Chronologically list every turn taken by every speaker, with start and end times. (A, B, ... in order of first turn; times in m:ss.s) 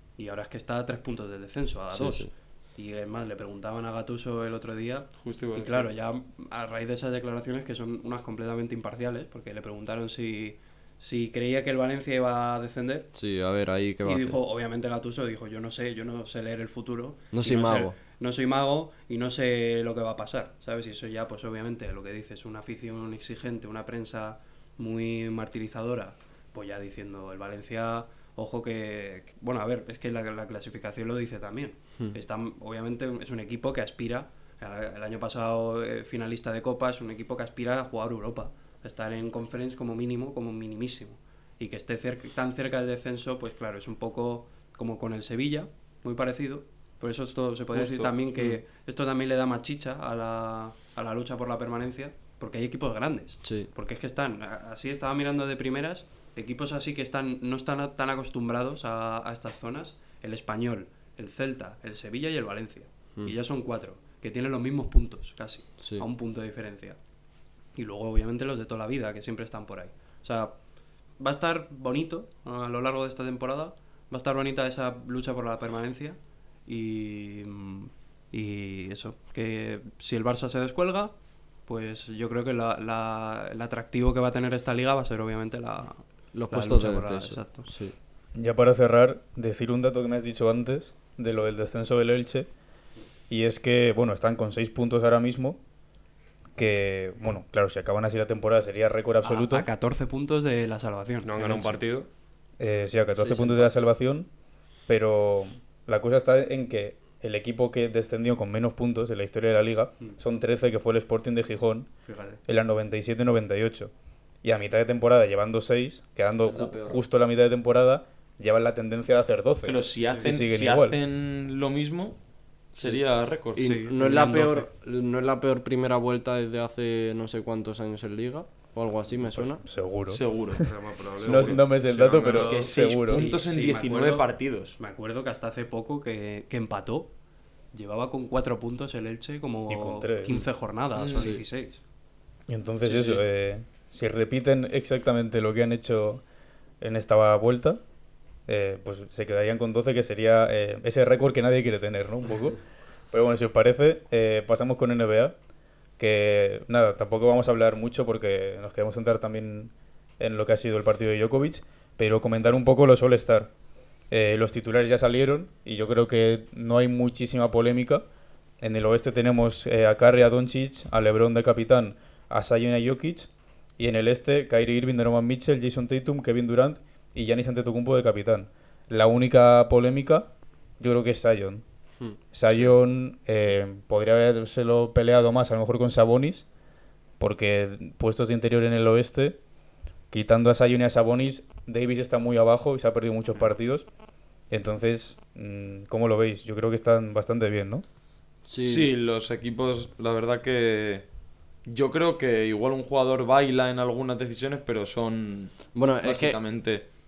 0:00.2-0:13.1 A
0:01.9-0:02.3 B
0:05.2-0:05.9 C
0:13.1-0:14.4 B
0:14.0-1:07.0 A
0:17.3-0:18.0 B
0:47.7-0:48.1 C
0:53.4-0:53.7 B
1:05.8-1:06.1 B
1:07.8-1:10.6 A
1:11.2-1:27.7 A
1:26.3-1:28.0 B
1:28.4-1:32.5 D
1:33.3-1:35.6 D
1:36.6-1:39.7 D
1:39.2-1:41.8 A
1:41.2-1:42.1 E
1:42.6-1:44.3 D
1:43.2-1:43.7 B
1:44.9-1:51.9 D
1:52.1-1:52.4 A
1:52.4-1:53.9 D
1:54.4-2:01.0 D
1:59.6-2:02.2 C
2:02.7-2:03.8 C
2:03.6-2:09.6 B
2:04.0-2:04.7 A
2:09.2-2:10.7 D
2:10.1-2:11.6 C
2:10.7-2:12.7 E
2:11.2-2:13.3 D
2:12.3-2:14.8 C
2:13.1-2:17.1 A
2:17.7-2:21.8 A
2:19.7-2:20.4 D
2:21.0-2:21.4 C
2:22.5-2:26.2 D
2:26.8-2:27.8 D
2:28.5-2:32.6 D
2:33.1-2:35.4 D
2:36.0-2:43.5 D
2:44.1-2:48.0 D
2:48.6-3:01.6 D
3:02.2-3:06.5 D
3:07.2-3:09.4 D
3:10.1-3:13.9 D
3:14.5-3:17.8 D
3:18.5-3:18.9 B
3:18.6-3:21.1 C
3:21.7-3:26.8 C
3:25.7-3:26.4 B